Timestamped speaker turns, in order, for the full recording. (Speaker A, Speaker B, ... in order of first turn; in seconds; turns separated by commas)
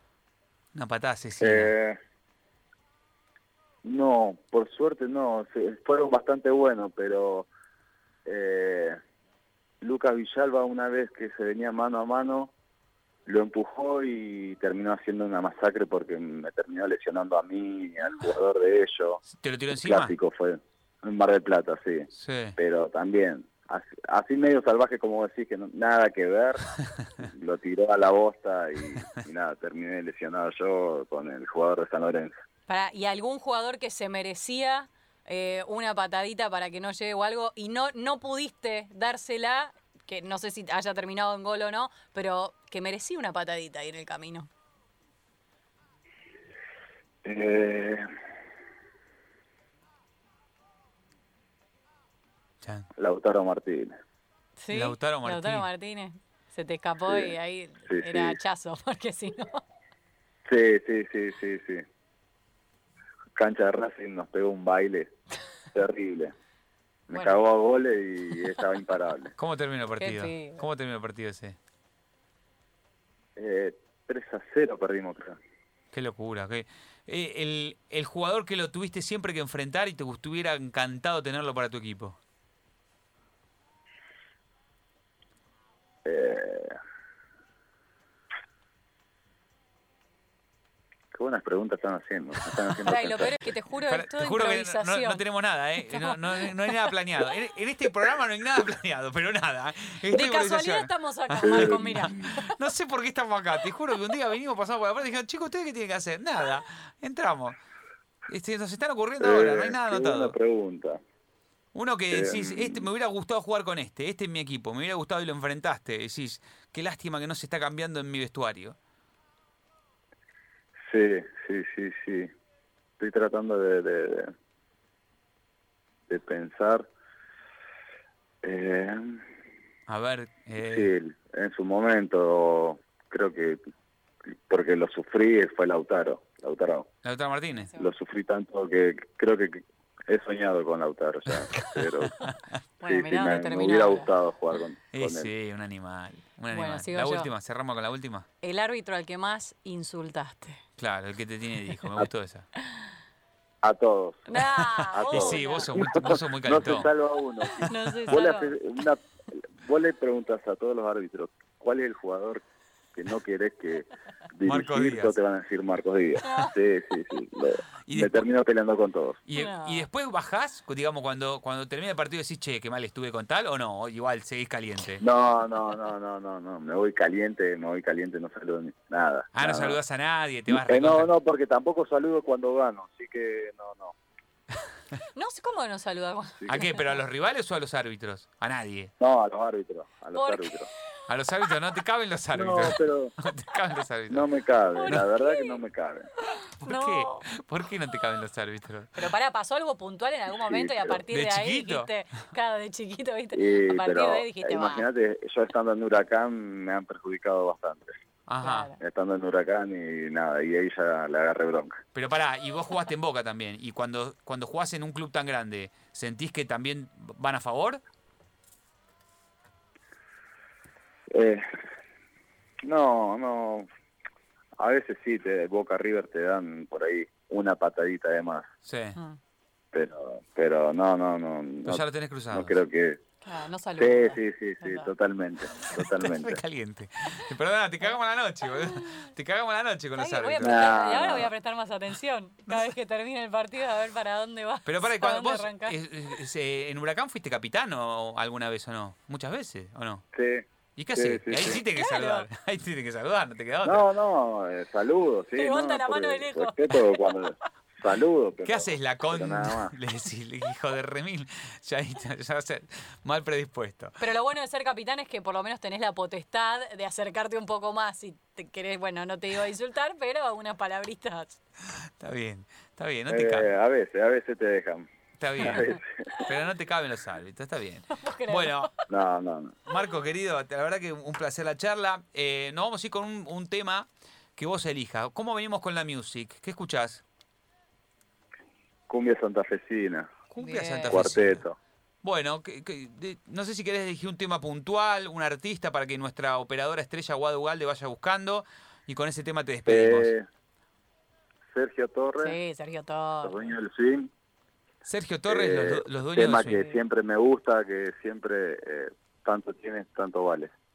Speaker A: 0.7-1.7, Speaker B: 1.4-2.0, Speaker B: 3.8-7.5, Speaker B: 8.2-9.0, Speaker B: 9.8-12.5, Speaker B: 13.3-19.2, Speaker A: 19.3-20.1, Speaker B: 19.7-32.3, Speaker A: 22.1-22.6, Speaker C: 32.7-44.5, Speaker B: 47.2-48.1, Speaker A: 52.6-52.9, Speaker B: 53.0-53.9, Speaker C: 54.6-59.6, Speaker A: 54.7-55.7, Speaker B: 57.1-57.4, Speaker B: 57.9-58.4, Speaker B: 60.5-61.9, Speaker B: 63.4-65.1, Speaker B: 65.7-66.3, Speaker B: 67.1-69.3, Speaker C: 67.1-67.4, Speaker C: 68.3-68.6, Speaker A: 69.4-71.6, Speaker C: 70.0-70.7, Speaker B: 73.4-75.4, Speaker A: 75.9-82.2, Speaker B: 86.0-86.8, Speaker B: 91.1-93.4, Speaker C: 92.8-95.2, Speaker A: 93.9-107.6, Speaker C: 95.8-96.9, Speaker C: 100.1-102.5, Speaker B: 101.4-102.3, Speaker A: 108.3-110.3, Speaker B: 109.2-111.0, Speaker A: 111.7-118.8, Speaker B: 112.1-112.9, Speaker B: 120.9-122.3, Speaker B: 123.0-124.3, Speaker B: 126.1-126.9, Speaker B: 128.4-129.2, Speaker A: 129.9-130.9, Speaker B: 130.6-133.6, Speaker B: 134.3-136.9, Speaker A: 137.0-137.7, Speaker C: 137.5-137.9, Speaker B: 137.8-142.1, Speaker A: 141.6-142.6, Speaker C: 141.6-144.1, Speaker B: 142.8-145.3, Speaker A: 144.9-148.3, Speaker C: 146.5-147.3, Speaker C: 148.4-150.6, Speaker A: 150.8-152.5, Speaker C: 152.6-152.9, Speaker B: 153.6-154.4, Speaker C: 154.3-155.9, Speaker A: 154.4-156.9, Speaker B: 154.9-169.2, Speaker A: 157.6-158.1, Speaker C: 157.6-158.6, Speaker A: 164.4-165.2, Speaker C: 166.2-166.6, Speaker A: 167.8-168.2, Speaker A: 169.3-175.0, Speaker C: 169.3-169.9, Speaker B: 175.0-179.8, Speaker A: 179.3-181.1, Speaker B: 180.5-184.0, Speaker C: 185.1-187.0, Speaker A: 186.5-188.9, Speaker B: 189.0-190.7, Speaker C: 190.1-191.0, Speaker A: 191.1-194.3, Speaker B: 192.3-193.1, Speaker B: 194.1-196.1, Speaker C: 194.8-195.6, Speaker C: 196.2-197.3, Speaker A: 196.6-199.1, Speaker C: 199.0-204.9, Speaker B: 200.3-201.0, Speaker A: 201.1-201.9, Speaker B: 203.3-207.9, Speaker A: 208.3-208.7, Speaker C: 208.4-208.8, Speaker B: 208.8-211.8, Speaker A: 211.9-217.8, Speaker B: 221.1-221.5, Speaker B: 222.6-223.7, Speaker B: 224.6-228.5, Speaker A: 228.7-229.0, Speaker B: 229.7-233.0, Speaker A: 231.7-232.6, Speaker C: 233.2-234.9, Speaker B: 233.8-236.4, Speaker A: 235.6-240.7, Speaker C: 238.5-239.1, Speaker C: 240.0-245.8, Speaker B: 240.4-241.3, Speaker A: 242.5-242.7, Speaker A: 244.7-250.0, Speaker B: 250.1-251.6, Speaker A: 250.8-253.8, Speaker C: 251.7-252.3, Speaker B: 253.6-259.7, Speaker C: 255.4-257.3, Speaker A: 258.4-264.0, Speaker C: 264.0-271.4, Speaker A: 271.7-273.5, Speaker B: 273.1-274.9, Speaker A: 275.2-275.7, Speaker B: 275.4-276.1, Speaker A: 276.2-278.7, Speaker C: 277.9-278.7, Speaker B: 278.9-279.6, Speaker A: 279.7-287.0, Speaker B: 288.9-290.1, Speaker A: 290.3-291.4, Speaker C: 290.4-291.0, Speaker B: 290.9-291.6, Speaker A: 292.0-300.1, Speaker B: 299.7-300.3, Speaker B: 301.5-302.4, Speaker C: 302.2-303.5, Speaker B: 303.2-304.1, Speaker A: 304.9-306.6, Speaker B: 305.3-310.6, Speaker C: 306.5-306.8